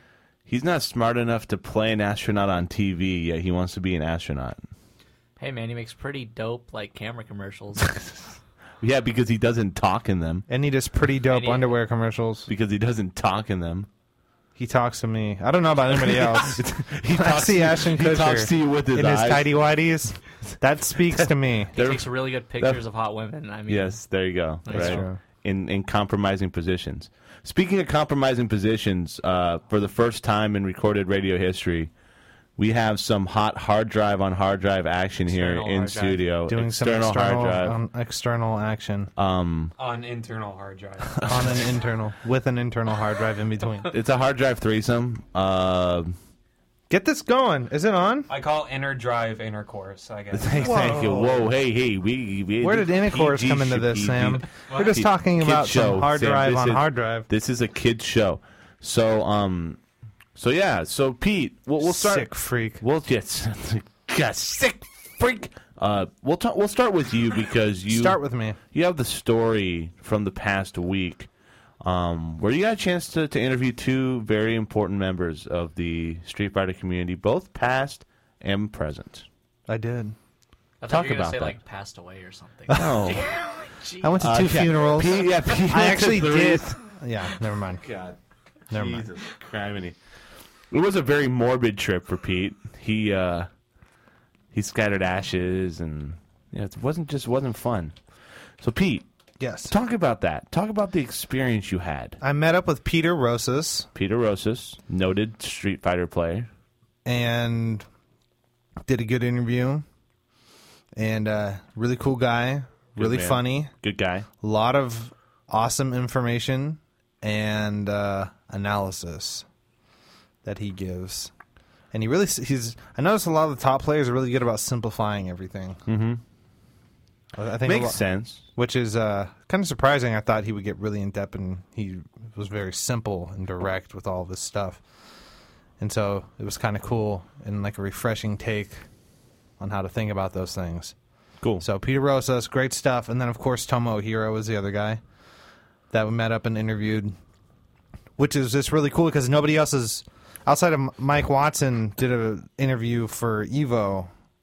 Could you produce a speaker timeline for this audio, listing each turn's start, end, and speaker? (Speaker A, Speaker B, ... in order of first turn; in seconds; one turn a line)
Speaker A: 0.5-4.6
Speaker B: 5.4-7.9
Speaker A: 7.8-8.2
Speaker A: 8.8-10.5
Speaker C: 10.5-12.5
Speaker B: 11.3-11.7
Speaker A: 12.5-13.9
Speaker C: 14.6-21.7
Speaker A: 16.3-19.5
Speaker A: 21.1-22.8
Speaker B: 21.8-24.0
Speaker A: 23.7-31.9
Speaker B: 24.6-25.0
Speaker C: 24.7-25.2
Speaker A: 32.6-37.8
Speaker B: 35.3-36.2
Speaker C: 36.5-39.1
Speaker A: 39.2-39.7
Speaker D: 39.8-41.7
Speaker C: 41.2-43.9
Speaker A: 43.9-46.1
Speaker C: 46.9-48.3
Speaker D: 48.3-51.3
Speaker A: 50.3-59.8
Speaker C: 50.6-51.5
Speaker C: 52.6-57.3
Speaker A: 60.4-71.3
Speaker C: 61.8-62.8
Speaker C: 67.9-68.6
Speaker A: 71.8-79.3
Speaker C: 79.7-80.2
Speaker B: 80.8-84.4
Speaker A: 80.8-81.6
Speaker A: 82.7-83.3
Speaker C: 82.7-83.0
Speaker C: 84.0-87.9
Speaker A: 84.2-86.6
Speaker A: 87.8-88.2
Speaker A: 88.7-90.0
Speaker C: 88.7-89.1
Speaker A: 90.7-93.5
Speaker A: 94.5-98.0
Speaker A: 98.6-99.0
Speaker C: 99.4-99.8
Speaker A: 99.7-102.2
Speaker C: 102.2-103.9
Speaker A: 104.0-106.5
Speaker C: 107.0-107.9
Speaker C: 108.8-109.8
Speaker C: 111.0-113.7
Speaker A: 113.0-114.3
Speaker C: 114.4-119.5
Speaker C: 120.4-121.3
Speaker C: 121.9-125.8
Speaker A: 125.9-126.2
Speaker C: 127.4-134.8
Speaker A: 127.6-128.4
Speaker C: 135.8-138.9
Speaker C: 139.6-140.9
Speaker C: 141.6-145.0
Speaker C: 145.9-147.2
Speaker C: 148.2-154.1